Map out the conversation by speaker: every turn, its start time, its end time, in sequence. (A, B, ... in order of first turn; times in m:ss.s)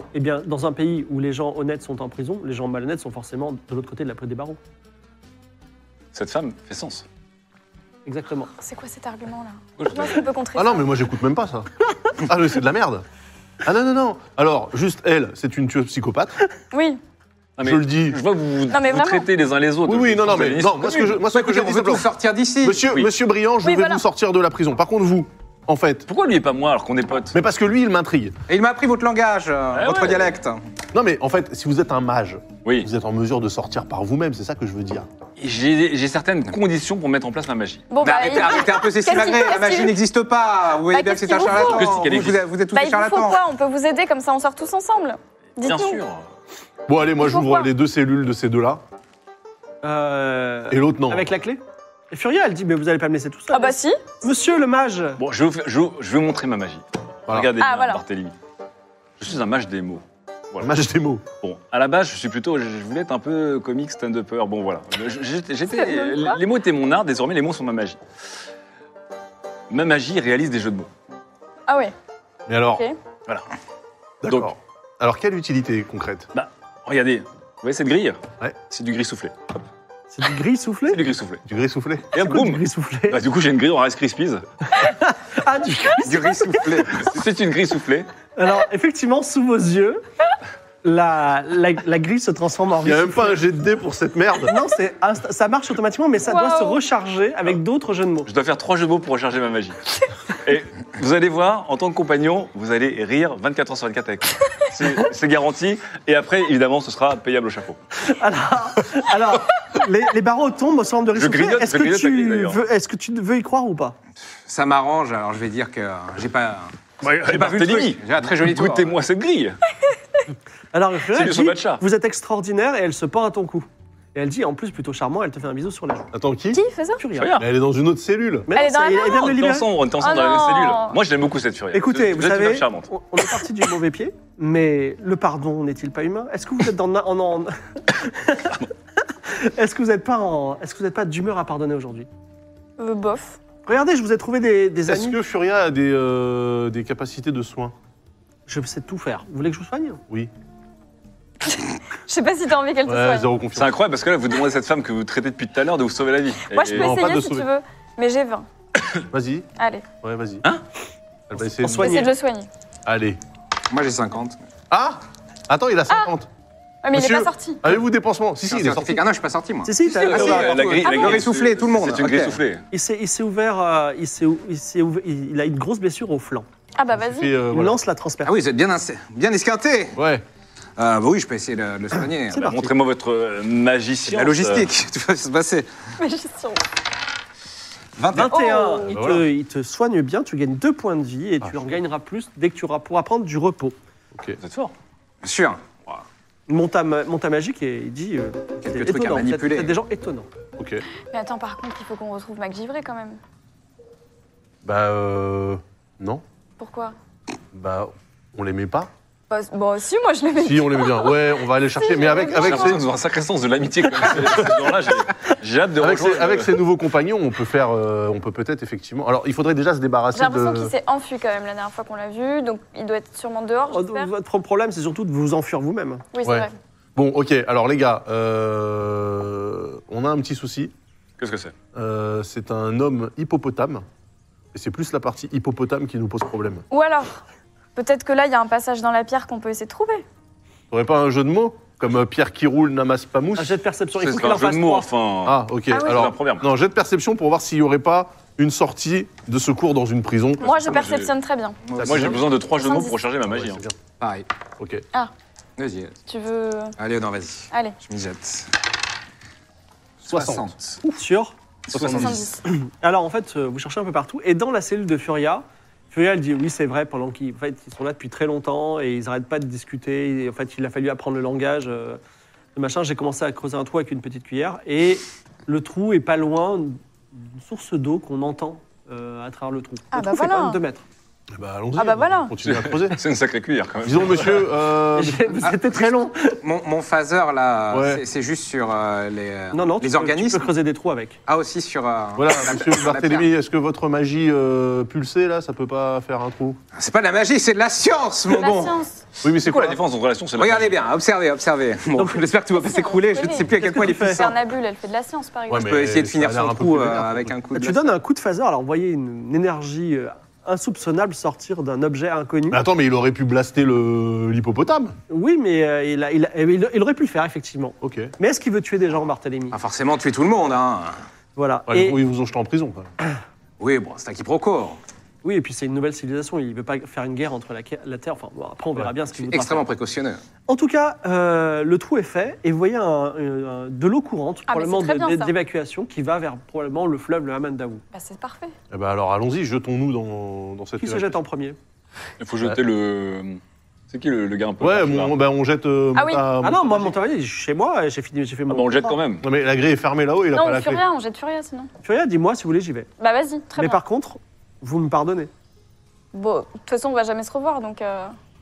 0:00.1-0:04.6 A
0:06.1-0:07.0 B
0:08.0-0:08.5 A
0:08.5-0:10.9 C
0:09.8-0:10.2 B
0:10.6-0:13.0 D
0:13.6-0:16.3 D
0:16.7-0:17.0 C
0:17.6-0:21.2 B
0:17.6-0:18.2 D
0:18.7-0:19.2 C
0:19.8-0:22.1 D
0:21.2-0:23.0 E
0:22.6-0:26.0 D
0:23.6-0:24.0 C
0:26.1-0:27.3 B
0:27.3-0:28.3 D
0:28.5-0:30.6 E
0:29.7-0:30.4 B
0:30.9-0:35.1 D
0:35.4-0:37.9 B
0:37.9-0:40.0 C
0:38.0-0:43.4 E
0:40.9-0:42.0 C
0:41.5-0:42.4 B
0:42.7-0:46.0 C
0:45.6-0:46.2 B
0:46.9-0:48.8 D
0:47.2-0:47.7 C
0:49.8-0:55.2 A
0:50.7-0:51.3 D
0:53.5-0:54.2 C
0:55.2-0:58.3 B
0:57.6-0:58.0 C
0:59.2-1:00.7 B
1:00.6-1:01.2 D
1:01.4-1:08.0 B
1:05.7-1:06.4 C
1:09.7-1:10.9 B
1:11.7-1:11.9 C
1:12.5-1:12.8 D
1:14.2-1:16.3 D
1:14.2-1:14.5 B
1:16.3-1:19.3 B
1:20.1-1:21.0 A
1:20.9-1:21.4 B
1:21.4-1:22.1 D
1:22.1-1:24.4 B
1:22.2-1:23.2 A
1:24.8-1:27.0 A
1:26.0-1:27.1 E
1:27.0-1:28.1 B
1:28.4-1:30.0 A
1:30.8-1:33.4 A
1:32.8-1:34.5 D
1:34.4-1:38.3 A
1:36.2-1:36.8 C
1:38.2-1:39.8 B
1:40.4-1:47.8 B
1:48.1-1:54.0 A
1:51.1-1:52.6 B
1:54.5-1:59.0 E
1:57.0-1:59.6 B
2:00.7-2:06.1 A
2:01.1-2:01.8 B
2:06.1-2:06.6 D
2:06.5-2:07.0 C
2:07.0-2:07.4 A
2:07.2-2:07.5 B
2:07.4-2:08.5 D
2:08.5-2:09.7 A
2:08.5-2:09.3 C
2:09.1-2:12.9 B
2:10.0-2:11.0 C
2:11.7-2:18.5 A
2:19.3-2:22.1 A
2:22.8-2:23.4 C
2:23.6-2:25.2 A
2:24.8-2:27.7 D
2:28.5-2:30.0 A
2:31.4-2:33.3 C
2:32.8-2:33.8 D
2:33.5-2:37.0 B
2:36.5-2:38.4 C
2:36.7-2:37.5 D
2:39.1-2:39.5 D
2:39.6-2:39.8 C
2:40.0-2:40.4 D
2:41.3-2:42.1 D
2:41.4-2:42.1 A
2:41.7-2:42.5 C
2:42.8-2:43.2 D
2:43.7-2:44.4 E
2:44.7-2:46.3 D
2:46.8-2:47.6 C
2:46.9-2:49.0 D
2:48.5-2:52.4 E
2:49.6-2:50.9 A
2:49.9-2:52.6 B
2:50.8-2:51.2 C
2:52.7-2:56.5 A
2:56.8-2:57.4 C
2:56.9-2:57.8 D
2:57.5-2:58.4 A
2:58.2-3:00.0 E
2:59.9-3:00.2 D
3:00.8-3:02.6 E
3:02.3-3:02.7 A
3:02.4-3:04.7 B
3:04.0-3:05.7 E
3:06.0-3:06.6 C
3:08.0-3:08.8 E
3:08.1-3:13.8 A
3:08.3-3:09.0 C
3:08.9-3:09.2 D
3:14.4-3:14.7 B
3:15.2-3:15.8 E
3:16.5-3:20.3 A
3:18.6-3:19.7 E
3:20.6-3:20.8 D
3:21.1-3:23.2 C
3:24.6-3:26.2 D
3:26.6-3:26.9 C
3:27.5-3:28.9 D
3:29.3-3:32.8 C
3:30.4-3:32.8 D
3:32.3-3:36.5 B
3:35.8-3:40.7 D
3:40.1-3:44.1 C
3:43.7-3:46.0 A
3:46.1-3:46.5 C
3:46.2-3:50.7 D
3:51.2-3:51.5 B
3:51.7-3:53.8 D
3:54.5-3:56.6 D
3:56.7-3:57.2 C
3:57.8-4:00.0 C
4:00.7-4:03.6 D
4:03.4-4:04.9 A
4:04.0-4:06.4 B
4:05.2-4:10.6 D
4:05.7-4:06.0 C
4:10.4-4:11.6 C
4:10.4-4:11.1 B
4:11.7-4:12.2 E
4:11.8-4:12.2 D
4:11.8-4:13.6 B
4:12.6-4:12.9 C
4:13.3-4:13.7 D
4:14.0-4:14.2 E
4:15.6-4:15.9 E
4:16.1-4:16.8 C
4:16.8-4:18.5 E
4:20.0-4:20.7 E
4:20.1-4:21.0 D
4:21.0-4:21.3 A
4:21.7-4:22.2 E
4:21.7-4:22.2 D
4:21.9-4:22.4 C
4:22.4-4:32.0 A
4:32.5-4:40.8 A
4:39.9-4:40.6 C
4:41.3-4:43.0 D
4:41.8-4:42.3 C
4:42.4-4:44.4 B
4:43.8-4:45.3 D
4:45.0-4:46.4 A
4:46.4-4:50.5 E
4:47.7-4:48.0 D
4:49.5-4:51.2 A
4:51.3-4:53.3 E
4:52.2-4:56.6 D
4:56.7-4:58.8 E
4:58.3-4:59.0 C
4:59.2-4:59.8 D
4:59.4-5:00.8 B
5:00.4-5:04.4 E
5:02.0-5:02.2 A
5:02.6-5:05.8 C
5:03.6-5:04.2 A
5:05.5-5:07.3 D
5:05.5-5:07.8 E
5:07.5-5:12.6 A
5:12.5-5:15.0 D
5:15.1-5:19.6 A
5:17.8-5:18.1 D
5:19.5-5:21.0 E
5:21.3-5:22.0 A
5:21.7-5:22.9 D
5:23.6-5:24.8 E
5:25.2-5:29.6 A
5:29.2-5:30.2 E
5:30.5-5:37.8 A
5:34.5-5:35.3 C
5:37.9-5:38.5 C
5:38.7-5:41.2 D
5:40.8-5:41.6 A
5:42.2-5:43.4 B
5:43.9-5:45.2 B
5:44.6-5:46.9 D
5:45.9-5:46.2 C
5:46.4-5:49.0 A
5:48.5-5:49.2 B
5:49.2-5:50.8 D
5:50.3-5:51.7 C
5:51.8-5:52.9 A
5:53.0-5:53.8 C
5:53.6-5:55.3 A
5:56.1-5:58.1 C